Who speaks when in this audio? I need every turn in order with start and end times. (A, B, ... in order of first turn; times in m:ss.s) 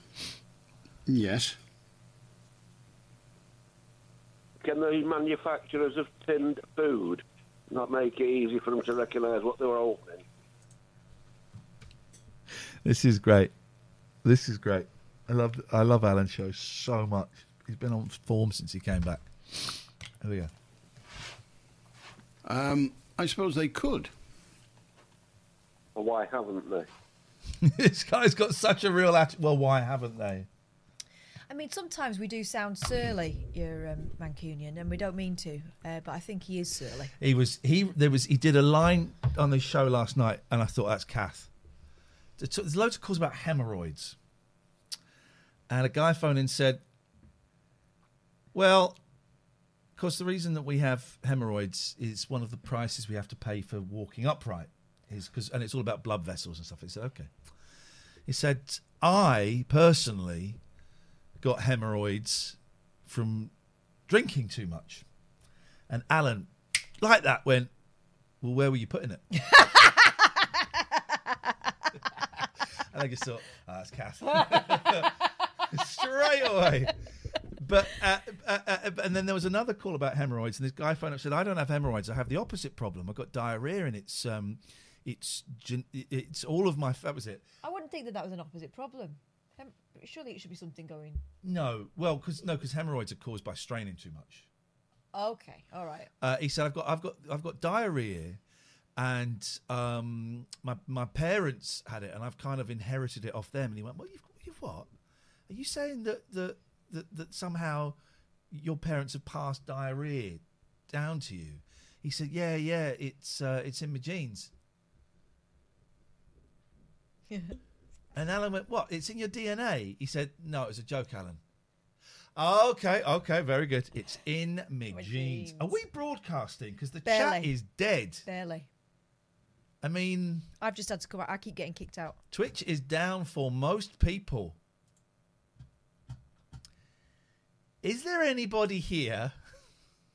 0:01.1-0:01.6 A
0:04.6-0:10.2 B
0:12.8-0:13.5 C
0:14.2-0:20.5 C
0:22.4-0:24.1 A
0:25.9-0:26.9 B
0:27.6-0:30.5 C
0:31.5-0:37.1 D
0:37.2-0:41.5 C
0:42.4-0:44.2 C
0:45.7-0:46.8 C
0:48.5-0:49.0 C
0:50.0-0:57.3 C
0:58.3-1:00.6 C
1:01.4-1:03.5 C
1:04.1-1:05.0 C
1:05.9-1:07.7 C
1:08.4-1:09.2 C
1:09.4-1:10.1 D
1:12.9-1:15.2 C
1:15.7-1:16.9 C
1:17.6-1:27.4 C
1:27.6-1:31.2 D
1:31.4-1:34.5 C
1:35.1-1:36.1 D
1:36.2-1:38.4 C
1:39.0-1:44.9 C
1:45.5-1:48.0 C
1:48.5-1:54.5 C
1:57.3-1:57.6 D
1:58.1-2:01.4 C
2:02.4-2:08.2 C
2:04.9-2:05.8 D
2:07.0-2:07.5 D
2:08.2-2:08.7 D
2:09.8-2:10.5 C
2:10.6-2:12.2 D
2:12.3-2:14.6 C
2:17.8-2:19.3 C